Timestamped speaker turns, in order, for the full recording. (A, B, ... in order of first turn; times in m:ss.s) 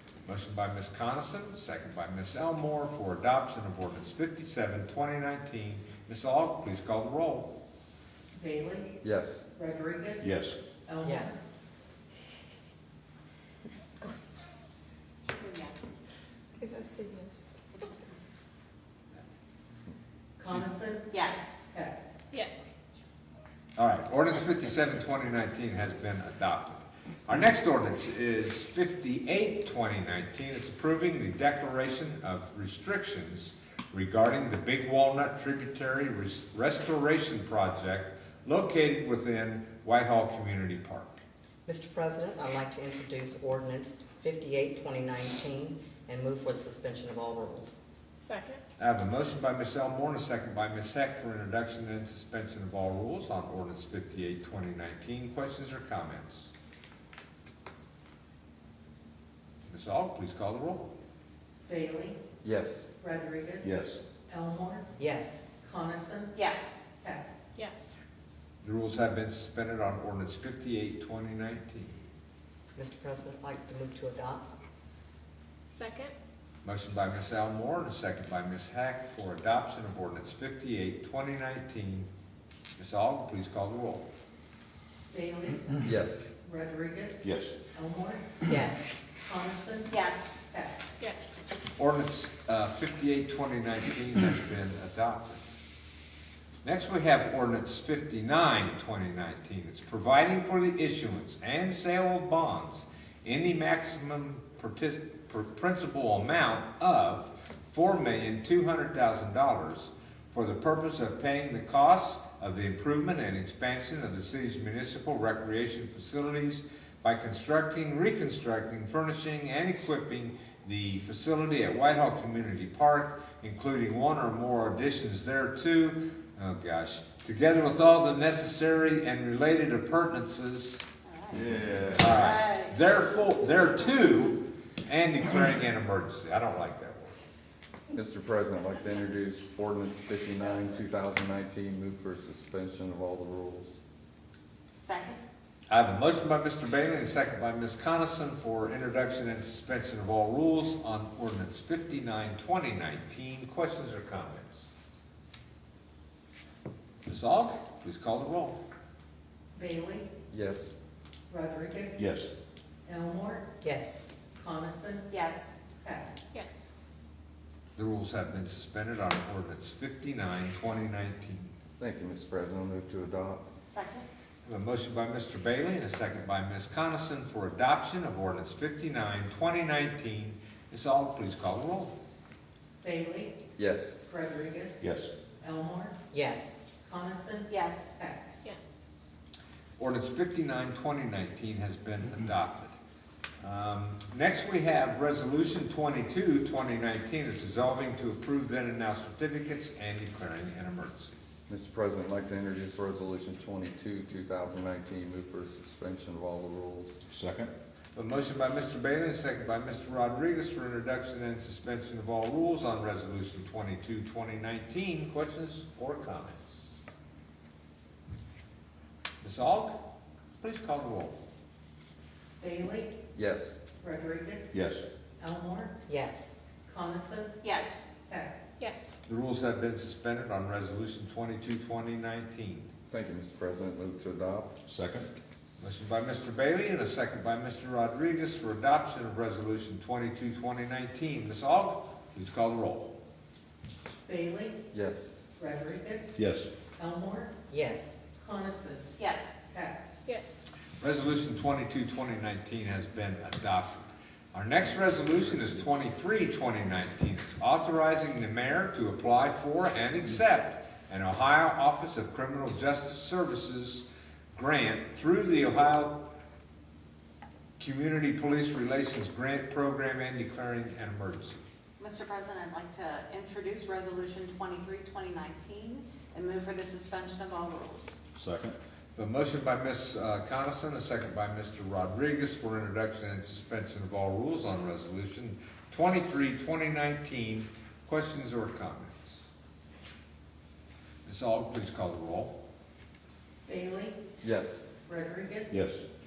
0:00.2-0:07.6 A
0:08.4-0:09.0 B
0:09.0-0:09.5 C
0:09.6-0:11.4 B
0:10.2-0:10.6 D
0:11.0-0:11.4 E
0:15.2-0:15.8 F
0:16.6-0:17.6 G
0:20.4-0:22.0 B
0:21.1-0:21.4 F
0:22.3-0:22.7 G
0:23.8-0:41.2 A
0:41.7-0:47.8 E
0:48.2-0:48.6 G
0:48.8-0:56.5 A
0:59.6-1:00.9 A
1:01.7-1:02.2 B
1:02.4-1:02.9 C
1:03.0-1:03.7 B
1:03.6-1:04.0 D
1:04.3-1:04.9 B
1:05.0-1:05.5 E
1:05.6-1:06.4 B
1:06.4-1:06.8 F
1:07.0-1:07.3 B
1:07.6-1:08.0 G
1:08.6-1:12.0 A
1:12.8-1:14.5 E
1:15.7-1:16.2 G
1:16.6-1:22.1 A
1:22.8-1:24.1 A
1:25.1-1:25.8 B
1:25.8-1:26.3 C
1:26.4-1:28.4 B
1:27.2-1:27.6 D
1:28.5-1:28.9 E
1:29.2-1:30.8 B
1:29.9-1:30.4 F
1:31.0-1:31.4 G
1:31.8-1:35.4 A
1:36.6-2:10.8 A
2:11.1-2:13.2 F
2:11.3-2:12.1 D
2:11.9-2:17.2 A
2:17.9-2:23.8 C
2:24.8-2:25.2 F
2:25.7-2:34.7 A
2:37.1-2:38.6 A
2:39.6-2:40.1 B
2:40.3-2:40.8 C
2:41.3-2:42.0 B
2:42.0-2:42.3 D
2:42.9-2:43.5 B
2:43.6-2:44.2 E
2:44.3-2:45.2 B
2:45.1-2:45.6 F
2:45.8-2:46.2 B
2:46.3-2:46.6 G
2:47.8-2:51.5 A
2:51.8-2:53.5 C
2:53.7-2:54.1 F
2:54.4-3:01.9 A
3:02.8-3:03.4 B
3:03.6-3:04.0 C
3:04.0-3:04.8 B
3:04.8-3:05.1 D
3:05.4-3:06.0 B
3:06.1-3:06.6 E
3:06.8-3:08.3 B
3:07.5-3:07.9 F
3:08.4-3:08.8 G
3:09.8-3:12.8 A
3:13.4-3:21.2 A
3:21.5-3:27.0 C
3:27.1-3:27.5 D
3:28.0-3:36.7 A
3:39.2-3:39.8 A
3:40.4-3:41.2 A
3:42.4-3:43.0 B
3:43.2-3:43.6 C
3:43.8-3:44.6 B
3:44.5-3:44.9 D
3:45.2-3:45.8 B
3:45.9-3:46.3 E
3:46.7-3:47.4 B
3:47.4-3:47.9 F
3:48.0-3:48.4 B
3:48.6-3:49.0 G
3:49.1-3:52.7 A
3:52.9-3:54.6 C
3:54.7-3:55.1 D
3:55.6-4:02.9 A
4:04.1-4:04.6 B
4:04.7-4:05.2 C
4:05.4-4:06.2 B
4:06.2-4:06.5 D
4:06.8-4:07.4 B
4:07.5-4:08.0 E
4:08.0-4:08.9 B
4:09.0-4:09.4 F
4:09.5-4:09.8 B
4:10.1-4:10.4 G
4:10.8-4:26.1 A
4:27.6-4:31.4 A
4:31.8-4:37.9 F
4:38.2-4:38.6 D
4:39.0-4:49.3 A
4:51.1-4:52.4 A
4:53.5-4:54.0 B
4:54.2-4:54.7 C
4:54.9-4:55.6 B
4:55.5-4:55.8 D